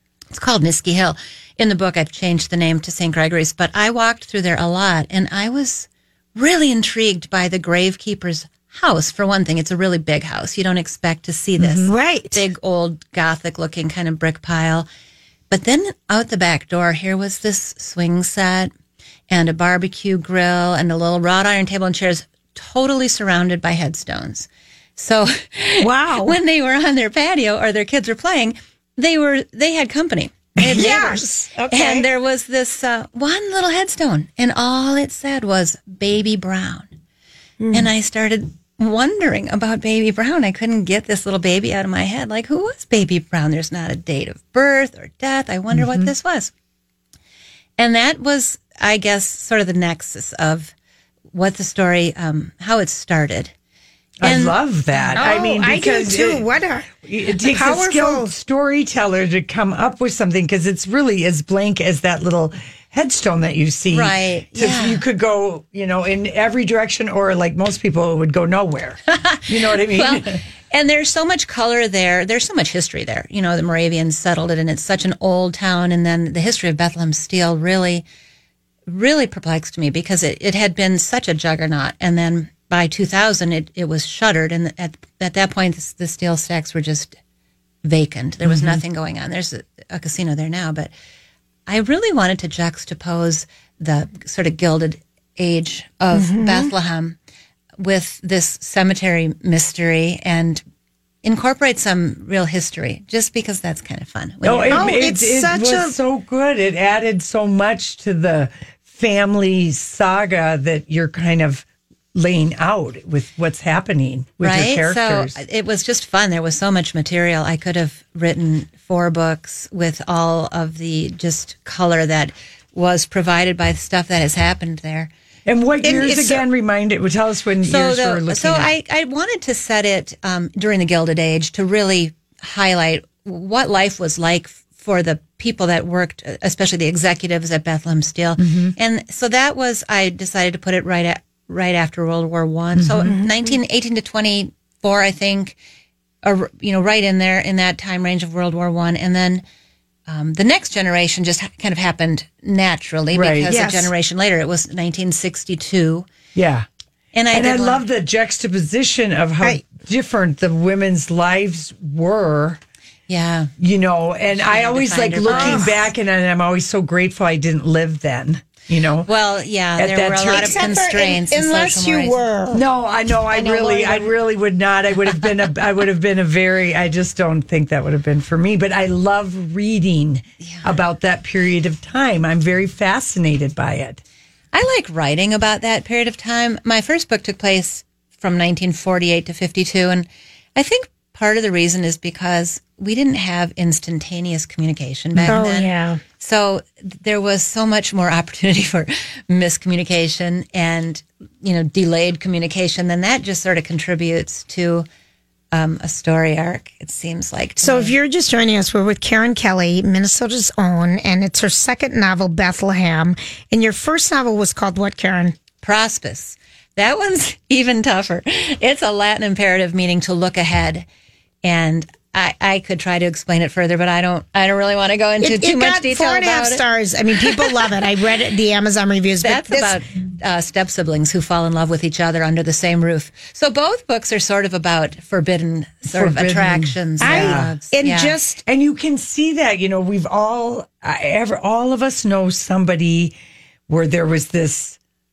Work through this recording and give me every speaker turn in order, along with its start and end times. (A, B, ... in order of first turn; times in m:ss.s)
0:00.3-0:14.9 A
0:11.6-0:11.9 B
0:11.8-0:12.4 C
0:15.5-0:18.7 A
0:19.3-0:36.9 A
0:25.8-0:26.4 C
0:30.6-0:32.0 C
0:37.6-0:37.9 C
0:37.7-0:46.5 A
0:45.7-0:46.1 B
0:47.8-0:50.7 A
0:51.3-0:53.5 A
0:54.2-0:56.4 B
0:54.2-0:55.4 A
0:55.2-0:56.9 C
0:57.0-1:10.4 B
0:57.5-0:58.3 C
1:03.9-1:05.0 A
1:09.1-1:18.0 A
1:18.9-1:27.2 A
1:27.8-1:30.9 A
1:28.4-1:28.8 B
1:31.7-1:37.2 A
1:36.1-1:36.7 C
1:37.8-1:40.6 A
1:41.2-1:45.0 A
1:44.4-1:55.4 B
1:44.7-1:45.9 C
1:54.4-2:05.1 A
2:05.4-2:08.7 B
2:05.8-2:06.4 C
2:07.6-2:25.6 A
2:18.4-2:18.7 B
2:22.7-2:23.2 B
2:26.2-2:29.4 A
2:30.1-2:36.1 A
2:33.1-2:33.5 B
2:33.4-2:33.9 C
2:36.3-2:36.6 B
2:37.1-2:37.8 A
2:37.3-2:42.6 B
2:43.1-2:43.5 A
2:43.6-2:49.1 B
2:44.3-2:45.8 A
2:45.2-2:45.7 C
2:49.0-2:52.2 A
2:49.8-2:50.8 B
2:50.2-2:52.6 C
2:52.5-3:04.0 B
2:53.3-2:54.1 C
3:00.4-3:00.7 A
3:04.5-3:24.8 A
3:15.3-3:16.0 C
3:25.5-3:27.9 A
3:27.6-3:35.4 C
3:35.6-3:40.8 A
3:41.4-3:46.6 A
3:45.2-3:49.8 C
3:47.2-3:47.6 A
3:49.2-3:58.2 A
3:55.9-3:57.6 B
3:57.0-3:58.4 C
3:58.4-4:03.1 B
4:03.7-4:04.8 B